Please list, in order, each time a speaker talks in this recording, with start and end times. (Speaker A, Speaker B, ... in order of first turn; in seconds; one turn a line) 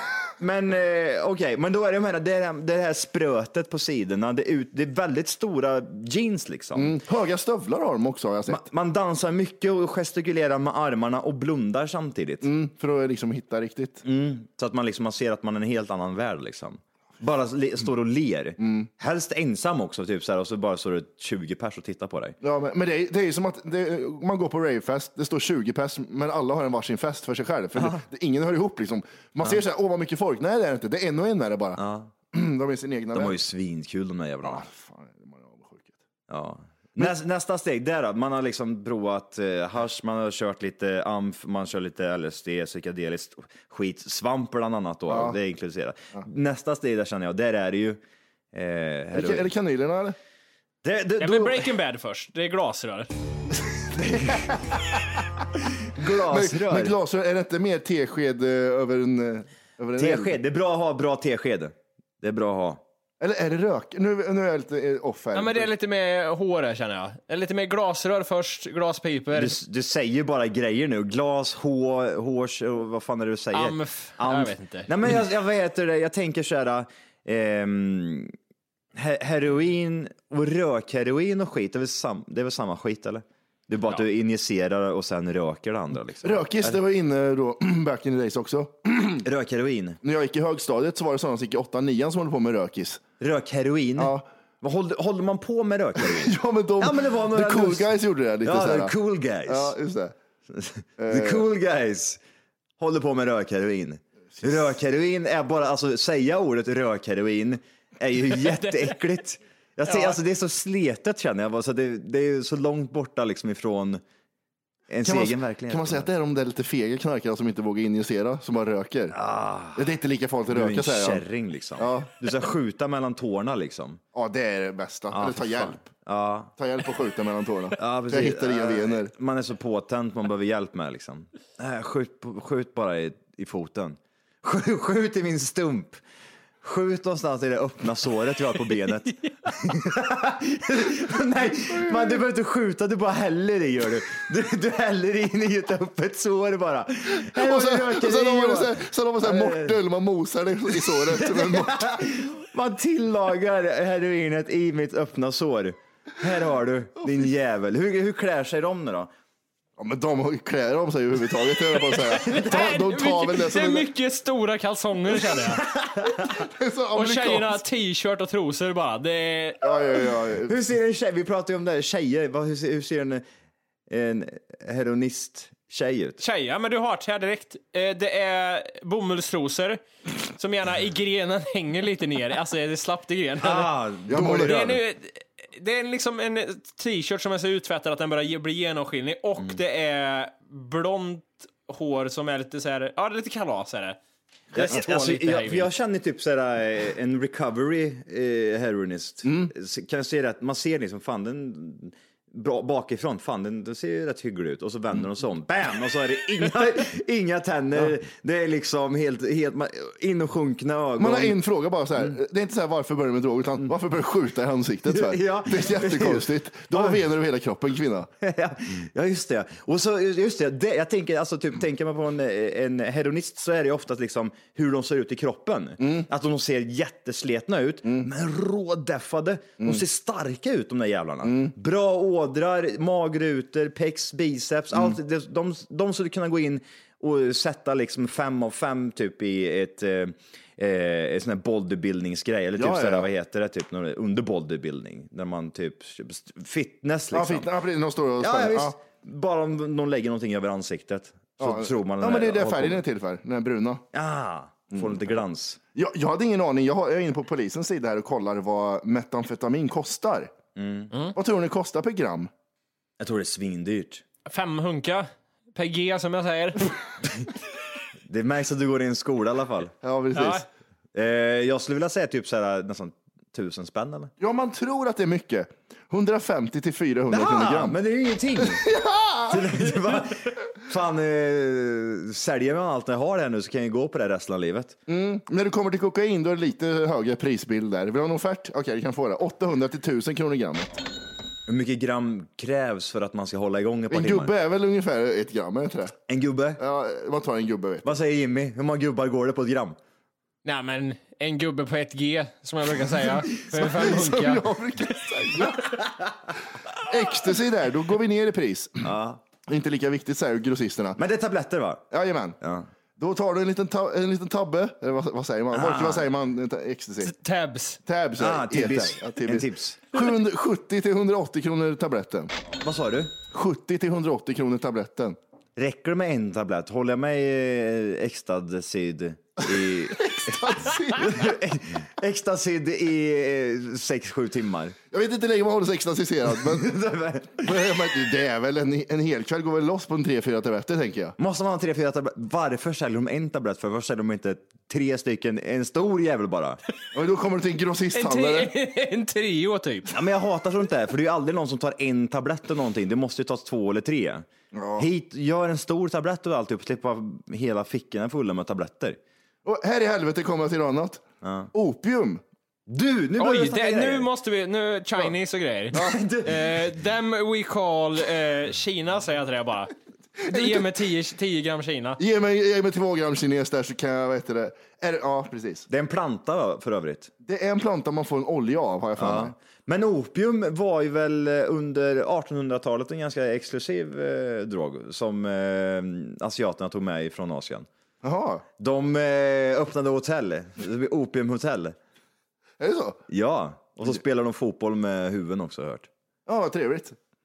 Speaker A: 0.4-7.0
Speaker B: 6.7-8.7
Speaker A: 8.5-12.5
Speaker B: 12.4-14.0
Speaker A: 14.0-22.4
Speaker B: 18.6-18.9
Speaker B: 22.4-31.8
Speaker A: 31.8-32.1
Speaker B: 32.3-33.4
Speaker A: 33.1-34.6
Speaker B: 34.4-36.0
Speaker A: 36.3-48.0
Speaker B: 45.1-45.4
Speaker A: 48.5-49.5
Speaker B: 49.1-50.1
Speaker A: 50.8-51.7
Speaker C: 51.2-53.1
Speaker B: 53.9-54.6
Speaker A: 54.1-54.5
Speaker A: 55.9-57.0
Speaker B: 56.1-60.4
Speaker A: 60.0-62.8
Speaker B: 63.2-65.7
Speaker C: 65.3-69.6
Speaker A: 69.3-78.3
Speaker C: 73.5-74.9
Speaker A: 78.9-86.8
Speaker B: 86.2-89.2
Speaker A: 89.2-90.0
Speaker B: 90.0-93.0
Speaker A: 93.2-97.9
Speaker B: 94.0-94.2
Speaker B: 96.0-98.9
Speaker A: 98.4-99.7
Speaker B: 99.5-100.1
Speaker A: 100.5-102.2
Speaker B: 101.0-101.5
Speaker A: 102.8-114.0
Speaker B: 104.4-104.7
Speaker C: 108.5-108.9
Speaker C: 109.9-110.2
Speaker A: 114.9-116.1
Speaker B: 115.0-119.2
Speaker A: 119.1-119.9
Speaker B: 119.7-121.2
Speaker A: 120.5-124.0
Speaker B: 121.8-122.1
Speaker B: 124.1-125.8
Speaker A: 125.1-126.5
Speaker B: 126.6-129.1
Speaker A: 127.8-136.0
Speaker A: 136.6-149.8
Speaker B: 141.9-142.2
Speaker B: 147.2-152.0
Speaker A: 150.7-159.1
Speaker B: 159.8-163.9
Speaker C: 162.0-165.6
Speaker A: 162.2-162.7
Speaker A: 165.3-166.3
Speaker B: 166.3-167.6
Speaker C: 166.9-169.6
Speaker B: 169.6-170.6
Speaker A: 170.4-173.2
Speaker A: 173.9-176.2
Speaker C: 176.2-179.8
Speaker C: 180.3-183.7
Speaker A: 183.4-184.8
Speaker B: 184.1-184.5
Speaker C: 184.4-194.0
Speaker A: 194.5-211.4
Speaker C: 194.5-195.7
Speaker B: 199.2-199.5
Speaker B: 211.0-218.1
Speaker A: 214.9-217.0
Speaker A: 218.2-247.5
Speaker B: 225.8-226.1
Speaker B: 227.8-228.1
Speaker B: 231.2-231.5
Speaker B: 242.6-243.1
Speaker B: 247.1-248.8
Speaker A: 248.2-252.8
Speaker B: 251.4-253.8
Speaker A: 253.9-255.6
Speaker B: 254.7-255.0
Speaker B: 255.7-260.3
Speaker A: 260.6-260.9
Speaker B: 261.1-262.3
Speaker A: 263.0-264.0
Speaker C: 264.3-266.7
Speaker A: 268.1-269.7
Speaker B: 269.8-270.4
Speaker C: 270.1-270.4
Speaker A: 270.9-274.1
Speaker B: 274.2-277.8
Speaker A: 277.1-278.7
Speaker B: 278.4-279.4
Speaker A: 279.3-284.8
Speaker B: 284.9-290.7
Speaker A: 291.5-294.3
Speaker B: 293.9-295.9
Speaker A: 296.1-296.6
Speaker B: 296.6-297.9
Speaker A: 297.8-299.8
Speaker C: 300.4-304.4
Speaker B: 303.4-305.8
Speaker B: 306.8-308.9
Speaker A: 308.8-309.2
Speaker B: 309.5-311.0
Speaker A: 311.0-311.9
Speaker B: 311.9-312.4
Speaker A: 312.4-312.7
Speaker B: 313.0-317.1
Speaker A: 315.5-316.1
Speaker C: 317.0-317.8
Speaker B: 317.9-322.3
Speaker A: 318.2-319.8
Speaker A: 322.6-323.1
Speaker B: 323.3-325.2
Speaker A: 325.6-334.8
Speaker B: 330.0-331.4
Speaker B: 334.9-336.8
Speaker A: 336.3-337.7
Speaker B: 337.4-341.1
Speaker A: 341.2-346.6
Speaker B: 346.9-348.5
Speaker C: 347.9-349.9
Speaker A: 349.9-354.3
Speaker B: 354.5-354.9
Speaker A: 354.8-359.0
Speaker B: 359.4-361.0
Speaker A: 361.2-361.5
Speaker B: 361.5-362.2
Speaker A: 362.7-364.1
Speaker C: 363.2-369.7
Speaker A: 365.7-366.6
Speaker C: 370.2-372.0
Speaker B: 370.3-370.7
Speaker B: 372.0-375.7
Speaker A: 375.7-377.1
Speaker B: 377.2-379.3
Speaker A: 379.0-387.7
Speaker B: 388.0-388.4
Speaker A: 388.6-391.8
Speaker B: 392.6-393.0
Speaker A: 393.1-395.9
Speaker B: 396.3-396.9